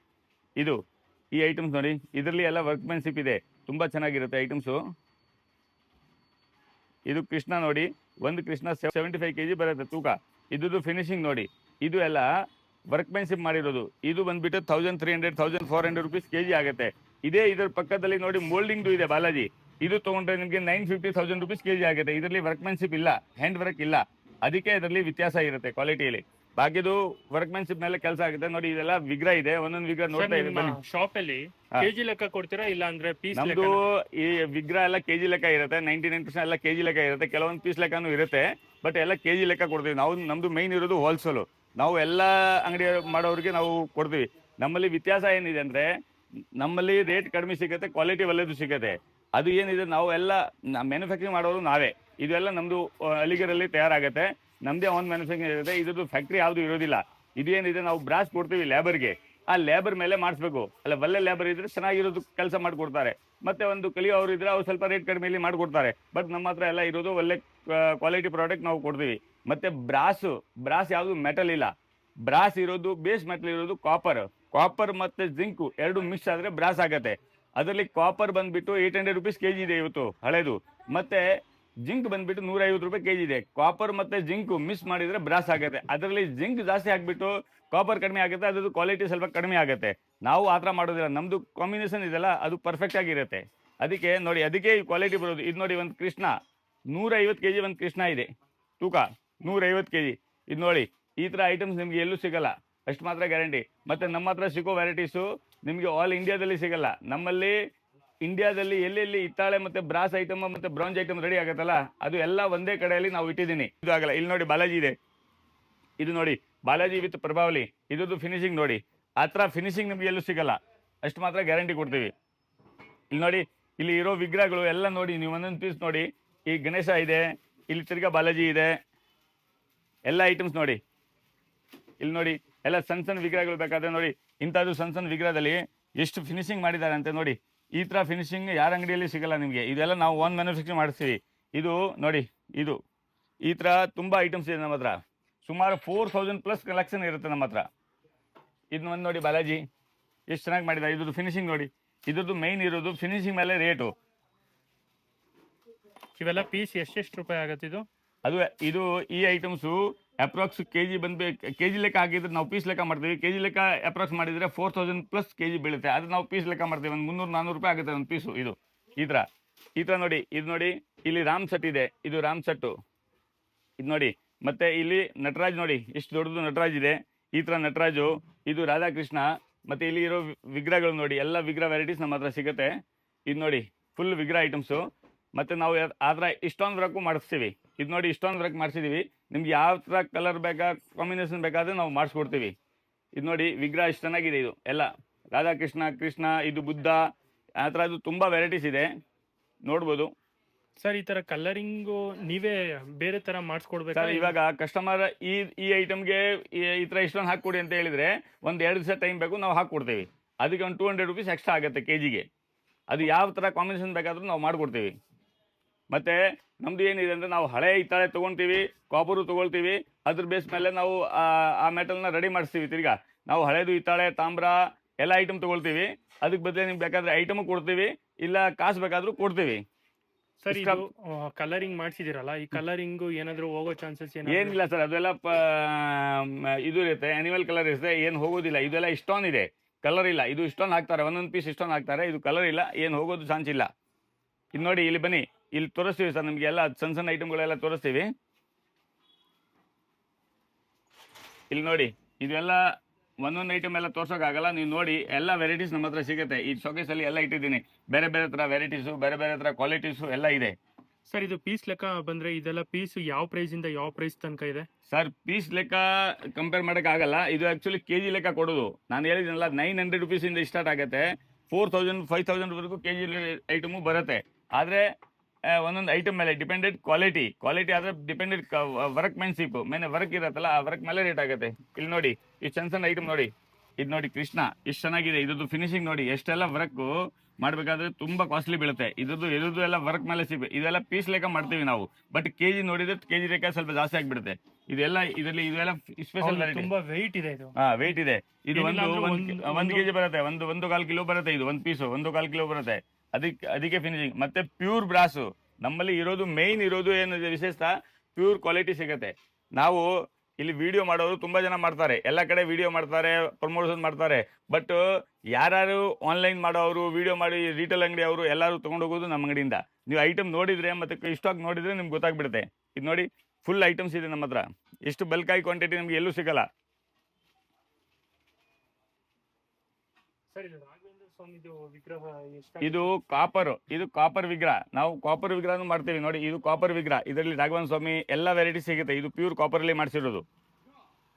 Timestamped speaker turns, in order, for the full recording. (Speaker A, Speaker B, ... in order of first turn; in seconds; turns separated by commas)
Speaker A: 1.4-4.8, Speaker A: 7.1-12.3, Speaker A: 12.9-30.8, Speaker B: 30.1-33.8, Speaker A: 33.4-45.9, Speaker A: 46.6-71.7, Speaker A: 72.2-81.3, Speaker A: 81.8-96.4, Speaker A: 96.9-98.3, Speaker A: 98.8-107.6, Speaker A: 108.2-115.0, Speaker A: 116.0-122.1, Speaker A: 123.1-128.8, Speaker A: 130.1-130.8, Speaker A: 132.0-142.8, Speaker A: 143.5-147.7, Speaker A: 148.7-149.6, Speaker A: 150.3-153.9, Speaker B: 156.2-157.9, Speaker A: 158.2-169.3, Speaker A: 169.8-172.8, Speaker A: 173.8-182.7, Speaker A: 183.3-192.5, Speaker A: 193.2-197.0, Speaker A: 197.6-198.9, Speaker A: 199.7-200.1, Speaker B: 200.8-204.3, Speaker A: 203.9-212.3, Speaker A: 212.9-214.9, Speaker A: 215.9-229.6, Speaker B: 230.4-234.6, Speaker A: 230.5-230.8, Speaker A: 234.3-243.7, Speaker A: 244.6-248.1, Speaker A: 251.5-260.6, Speaker B: 261.1-264.7, Speaker A: 264.9-274.9, Speaker A: 275.5-296.7, Speaker B: 296.2-297.6, Speaker A: 297.6-314.8, Speaker B: 298.5-299.9, Speaker A: 315.4-326.5, Speaker B: 330.3-332.9, Speaker A: 332.6-340.2